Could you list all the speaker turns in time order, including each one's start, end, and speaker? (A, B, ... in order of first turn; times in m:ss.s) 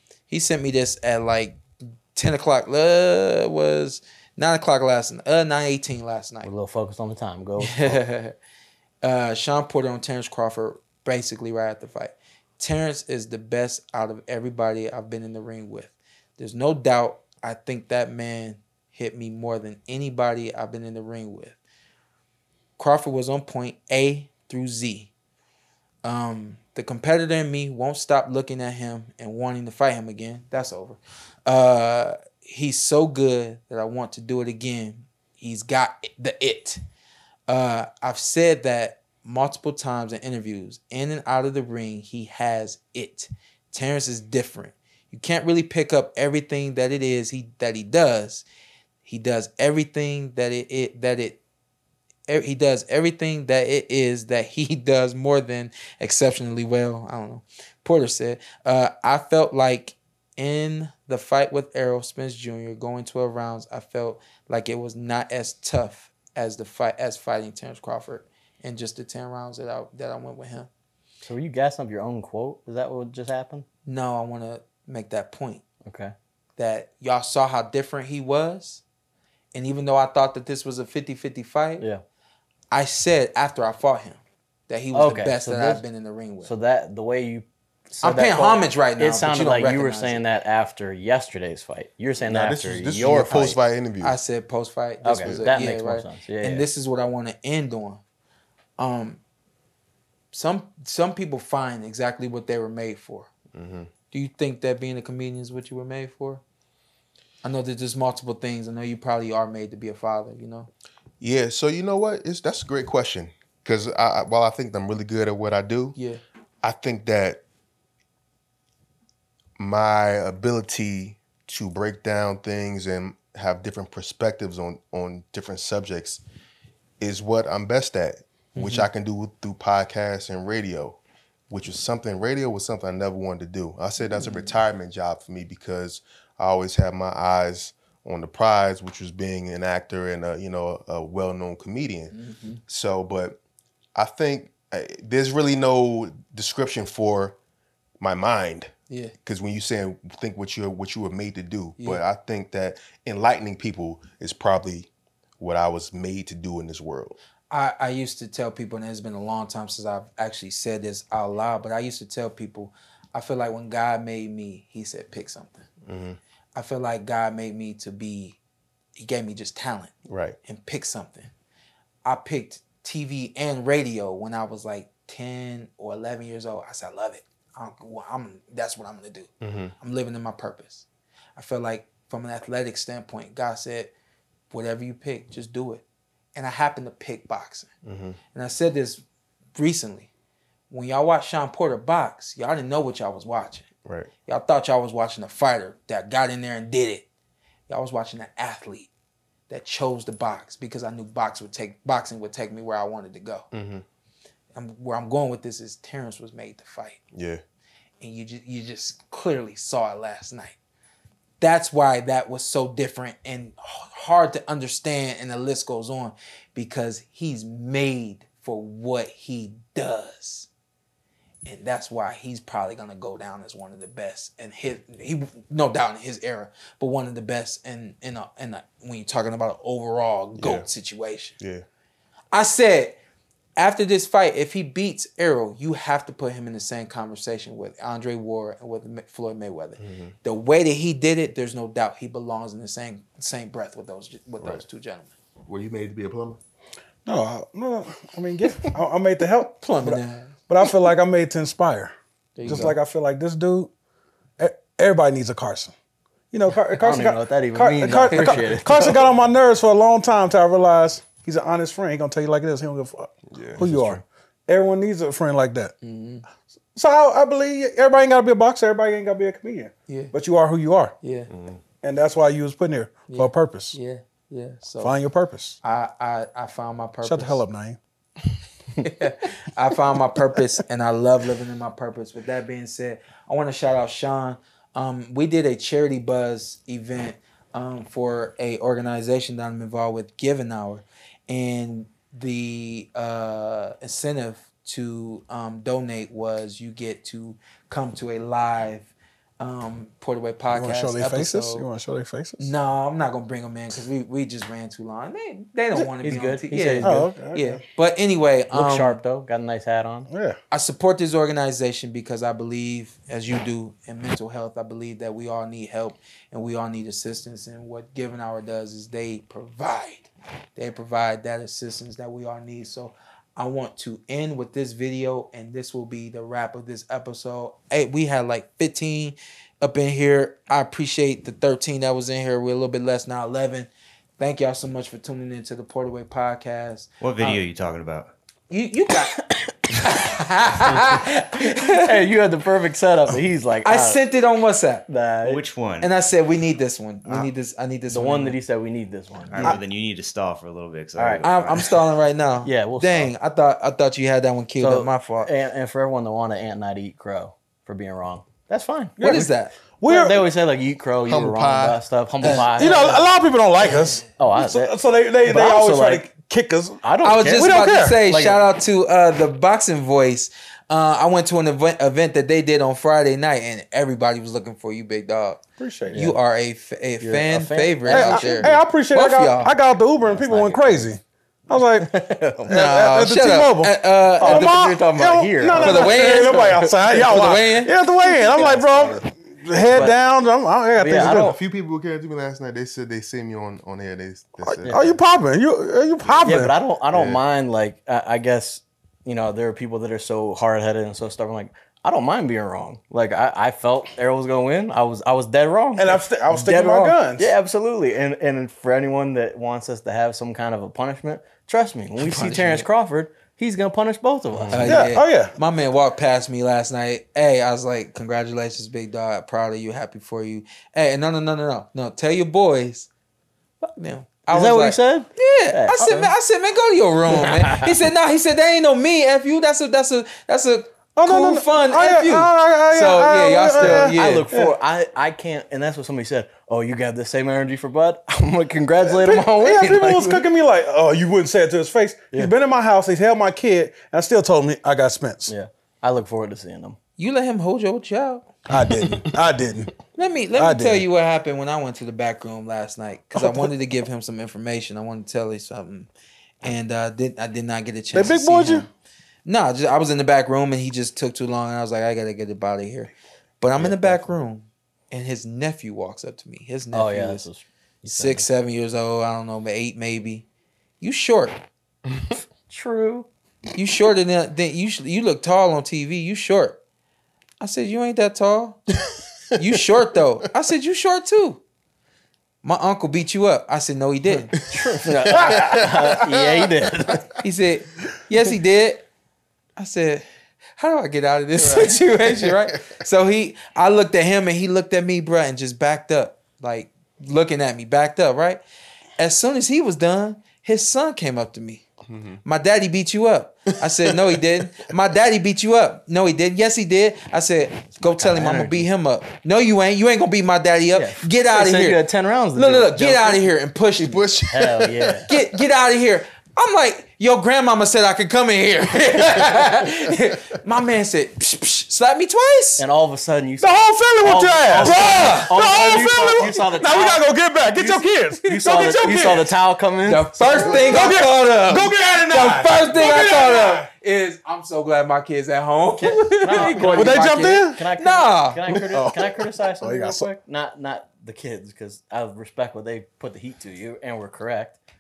0:00.3-0:01.6 A
0:02.1-0:06.5 A
0:06.4-0:08.0 B
0:07.6-0:08.4 A
0:09.0-0:21.6 A
0:22.8-0:25.1 A
0:26.0-0:36.8 A
0:37.5-0:48.4 A
0:49.0-0:51.4 A
0:52.3-1:10.7 A
1:11.2-1:13.6 B
1:13.8-1:15.6 A
1:15.8-1:16.1 B
1:16.6-1:18.8 A
1:19.5-1:21.8 A
1:22.7-1:26.5 A
1:24.9-1:25.8 B
1:26.4-1:33.6 B
1:28.0-1:30.2 A
1:32.2-1:34.2 C
1:34.0-1:38.0 A
1:35.0-1:36.6 B
1:38.8-1:39.2 A
1:40.3-1:43.3 A
1:43.5-1:43.9 C
1:44.1-1:46.4 A
1:47.4-1:50.7 A
1:51.2-1:56.0 C
1:56.6-1:57.4 C
1:59.6-2:06.2 C
2:07.0-2:11.0 C
2:08.5-2:08.9 A
2:11.5-2:22.1 C
2:14.0-2:14.6 A
2:22.1-2:22.6 A
2:22.7-2:23.4 C
2:23.9-2:27.4 C
2:28.0-2:28.7 C
2:29.2-2:34.9 C
2:35.4-2:37.2 C
2:37.5-2:45.6 A
2:45.8-2:46.2 C
2:46.5-2:48.4 A
2:49.0-2:49.9 A
2:50.1-2:50.4 C
2:50.4-2:51.3 A
2:52.0-3:03.9 A
2:59.4-2:59.7 C
3:04.5-3:05.8 A
3:06.3-3:07.7 A
3:07.8-3:08.2 C
3:08.3-3:09.0 A
3:09.6-3:10.1 A
3:10.7-3:13.7 A
3:14.2-3:17.0 A
3:17.7-3:18.9 A
3:19.5-3:23.5 A
3:23.5-3:23.8 C
3:24.5-3:27.0 A
3:27.1-3:27.4 C
3:28.0-3:30.6 A
3:31.4-3:40.5 A
3:41.4-3:51.4 A
3:50.4-3:50.6 C
3:51.4-3:51.6 C
3:52.3-3:53.0 A
3:53.6-4:05.1 A
3:59.8-4:00.1 C
4:05.5-4:06.4 C
4:07.0-4:11.9 D
4:09.6-4:10.3 A
4:12.4-4:12.8 A
4:12.4-4:13.7 D
4:14.4-4:15.7 D
4:16.3-4:25.7 D
4:16.8-4:19.1 B
4:18.1-4:18.5 A
4:23.3-4:23.9 C
4:23.7-4:24.0 B
4:25.8-4:26.2 A
4:26.7-4:31.0 D
4:29.9-4:30.1 A
4:31.0-4:31.3 A
4:31.3-4:31.6 C
4:31.8-4:33.8 D
4:33.1-4:35.0 A
4:34.8-4:35.6 D
4:35.6-4:37.4 A
4:37.0-4:37.8 D
4:38.8-5:01.7 A
5:00.5-5:02.5 D
5:02.4-5:09.0 A
5:06.0-5:07.1 B
5:06.8-5:07.6 D
5:08.5-5:10.1 B
5:10.1-5:10.4 D
5:10.5-5:37.4 A
5:37.0-5:38.1 E
5:38.5-5:39.2 A
5:39.8-5:42.1 A
5:41.7-5:44.0 B
5:43.6-5:44.8 A
5:44.9-5:45.4 B
5:45.2-5:45.9 E
5:45.8-5:48.4 A
5:47.0-5:47.3 B
5:47.9-5:49.6 B
5:49.3-5:51.8 E
5:51.0-5:51.3 B
5:51.2-5:55.3 A
5:52.4-5:53.1 B
5:54.6-5:59.2 B
5:59.0-6:00.3 D
5:59.0-5:59.5 A
5:59.8-6:03.1 B
6:01.0-6:02.3 C
6:02.2-6:02.7 A
6:02.5-6:08.0 D
6:04.2-6:04.7 B
6:05.2-6:06.1 B
6:06.8-6:08.4 B
6:07.0-6:15.4 A
6:15.6-6:16.0 D
6:15.8-6:16.2 B
6:15.9-6:19.5 A
6:17.0-6:18.6 B
6:17.9-6:31.4 D
6:20.0-6:20.9 B
6:21.8-6:22.6 B
6:22.5-6:24.7 A
6:24.2-6:27.4 B
6:25.5-6:27.7 A
6:28.0-6:29.0 B
6:29.7-6:30.0 B
6:30.8-6:31.4 B
6:31.0-6:35.0 C
6:34.4-6:36.5 D
6:36.2-6:54.8 B
6:36.9-6:37.2 C
6:45.7-6:47.3 D
6:52.0-6:52.7 A
6:54.3-6:54.7 C
6:54.5-7:02.9 A
6:54.6-6:55.3 D
7:03.6-7:14.3 A
7:04.3-7:06.1 B
7:07.1-7:07.7 B
7:11.0-7:14.6 D
7:13.6-7:20.2 B
7:18.8-7:25.3 D
7:25.3-7:26.8 B
7:27.0-7:28.3 A
7:28.5-7:29.7 D
7:30.0-7:35.9 A
7:30.4-7:30.9 D
7:33.1-7:33.5 D
7:36.4-7:38.7 A
7:37.9-7:38.7 D
7:39.2-7:47.3 A
7:46.7-7:48.3 B
7:47.9-7:50.2 A
7:50.8-7:51.4 A
7:52.5-7:53.1 B
7:53.5-7:56.6 A
7:57.4-7:58.6 A
7:59.4-8:01.4 A
8:02.4-8:04.3 A
8:04.4-8:07.1 C
8:04.5-8:07.1 B
8:07.2-8:08.9 A
8:09.6-8:10.0 A
8:10.6-8:18.4 A
8:11.4-8:12.8 C
8:19.0-8:21.6 A
8:21.9-8:22.2 C
8:22.2-8:31.8 A
8:28.0-8:28.7 B
8:30.7-8:33.2 B
8:32.4-8:34.2 A
8:33.8-8:35.2 C
8:34.3-8:35.1 B
8:35.1-8:42.6 A
8:42.6-8:50.5 B
8:43.4-8:49.3 D
8:44.6-8:46.4 A
8:48.4-8:49.0 A
8:49.8-8:58.4 A
8:50.3-8:50.8 C
8:50.3-8:53.7 D
8:55.8-9:04.6 B
8:56.6-8:57.6 D
8:58.5-9:00.1 D